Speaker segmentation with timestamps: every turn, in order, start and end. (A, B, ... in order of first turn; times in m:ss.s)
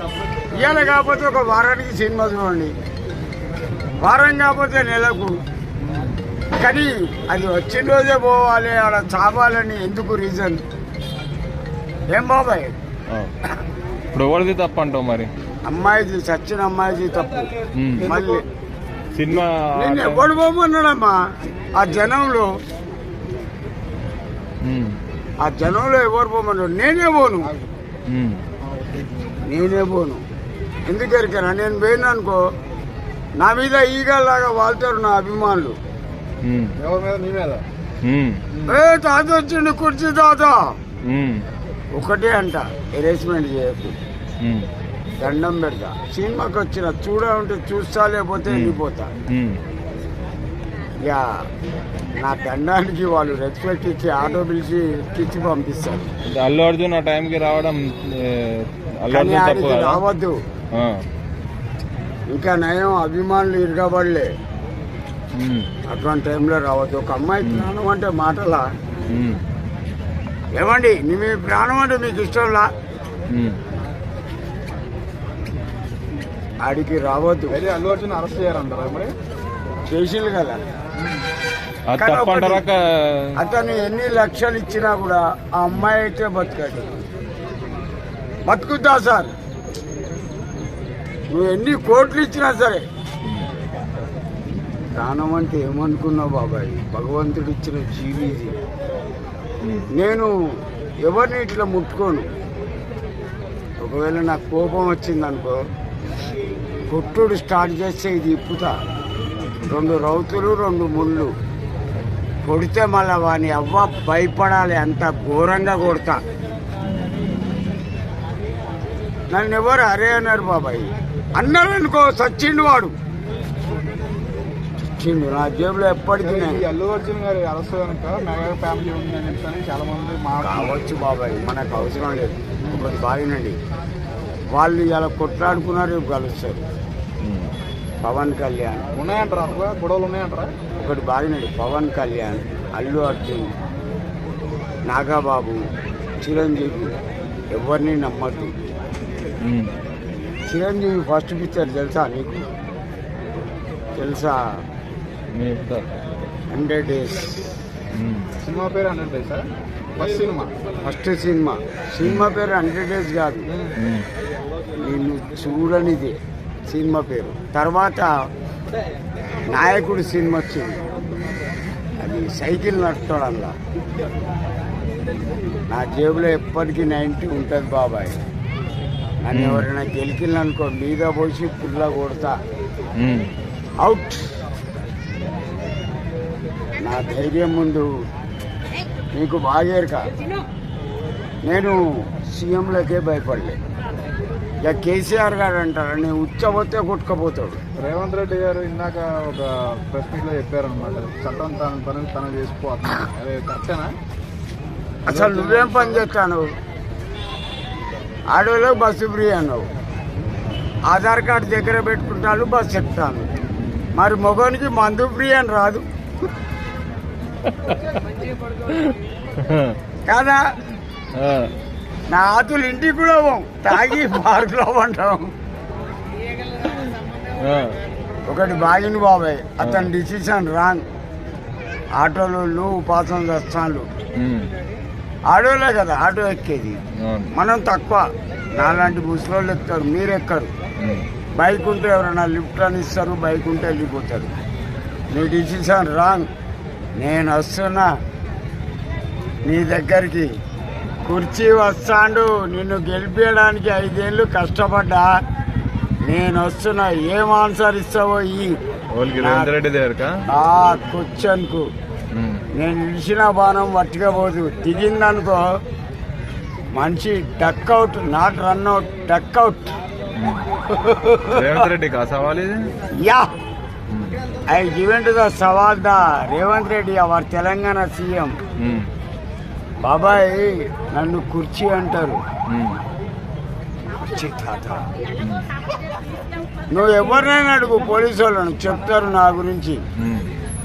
0:00.5-0:02.7 A
0:04.0-0:05.4 A
0:06.6-0:10.6 A
0:12.1-0:12.7 A
0:14.1-0:15.3 B
0:15.7-0:18.4 A
0:17.8-0:18.1 B
0:19.1-0:20.3 B
0:19.3-0:21.2 A
0:21.8-0:22.5 A
0:24.6-0:25.0 B
0:25.4-0:27.5 A
0:28.1-0:28.4 B
0:28.6-0:29.4 C
0:29.4-0:30.2 A
0:30.9-0:32.4 A
0:33.4-0:35.8 A
0:36.4-0:36.8 B
0:36.8-0:37.6 C
0:38.0-0:38.4 B
0:38.5-0:38.8 C
0:38.7-0:40.8 A
0:41.1-0:41.4 B
0:41.9-0:44.0 A
0:44.4-0:44.7 B
0:45.2-0:49.1 A
0:48.5-0:48.8 B
0:49.3-0:49.6 B
0:51.0-0:51.5 A
0:52.2-0:56.1 A
0:56.2-1:00.0 B
0:59.1-1:00.4 A
1:00.7-1:01.0 B
1:02.3-1:04.3 A
1:05.4-1:05.7 B
1:05.9-1:08.7 A
1:09.1-1:09.4 B
1:10.6-1:12.7 A
1:13.3-1:13.6 B
1:16.6-1:17.6 A
1:17.5-1:19.1 C
1:19.9-1:20.6 A
1:21.0-1:21.3 C
1:21.9-1:23.4 B
1:22.0-1:22.6 A
1:23.4-1:27.0 A
1:28.5-1:29.3 A
1:31.3-1:32.8 A
1:35.0-1:38.6 A
1:39.9-1:40.3 A
1:41.0-1:42.3 A
1:43.8-1:45.6 A
1:46.9-1:48.8 A
1:49.7-1:51.3 A
1:52.4-1:56.2 A
1:59.3-2:02.9 A
2:05.0-2:06.6 A
2:06.2-2:10.8 C
2:10.4-2:13.6 A
2:12.6-2:12.9 C
2:14.5-2:16.6 A
2:17.2-2:17.5 B
2:18.0-2:18.9 A
2:19.0-2:20.5 C
2:20.8-2:23.5 A
2:24.9-2:25.7 A
2:26.2-2:27.0 A
2:27.5-2:28.5 A
2:29.4-2:29.7 B
2:30.5-2:32.5 A
2:34.0-2:34.6 A
2:35.4-2:35.9 B
2:36.5-2:37.5 A
2:37.9-2:38.3 B
2:38.4-2:40.6 C
2:40.9-2:43.5 A
2:42.0-2:42.3 B
2:43.5-2:43.8 C
2:43.8-2:44.1 B
2:44.8-2:46.2 A
2:46.7-2:48.1 A
2:49.5-2:50.8 A
2:52.0-2:53.6 A
2:55.7-2:58.2 A
2:59.2-3:02.4 A
2:59.3-2:59.7 B
3:03.0-3:03.3 B
3:03.8-3:04.2 A
3:06.8-3:07.9 A
3:09.1-3:10.1 A
3:11.5-3:13.6 A
3:14.6-3:17.6 A
3:17.8-3:24.0 C
3:25.1-3:26.5 A
3:25.1-3:26.1 C
3:28.3-3:29.7 A
3:30.9-3:33.3 A
3:34.0-3:35.8 A
3:37.4-3:38.0 B
3:38.6-3:39.8 B
3:40.1-3:40.4 A
3:41.2-3:41.5 B
3:42.1-3:45.3 A
3:46.6-3:47.8 B
3:48.3-3:50.8 A
3:49.6-3:49.9 B
3:52.0-3:53.9 A
3:54.2-3:54.5 B
3:55.3-3:56.8 A
3:57.0-3:57.3 B
3:57.3-4:00.5 A
4:00.8-4:01.1 B
4:01.4-4:04.3 A
4:05.1-4:06.3 A
4:07.0-4:07.9 A
4:09.5-4:10.3 A
4:11.0-4:15.1 A
4:16.1-4:18.6 A
4:19.0-4:20.2 B
4:19.2-4:19.5 A
4:20.3-4:21.7 A
4:22.2-4:22.4 B
4:22.6-4:25.4 A
4:26.7-4:29.8 A
4:30.2-4:30.5 B
4:30.9-4:31.6 A
4:31.2-4:32.7 B
4:33.0-4:33.3 A
4:33.9-4:34.2 B
4:34.5-4:38.4 A
4:38.6-4:38.9 B
4:39.8-4:42.2 A
4:42.5-4:42.8 B
4:44.0-4:44.9 A
4:46.7-4:49.8 A
4:50.0-4:50.3 B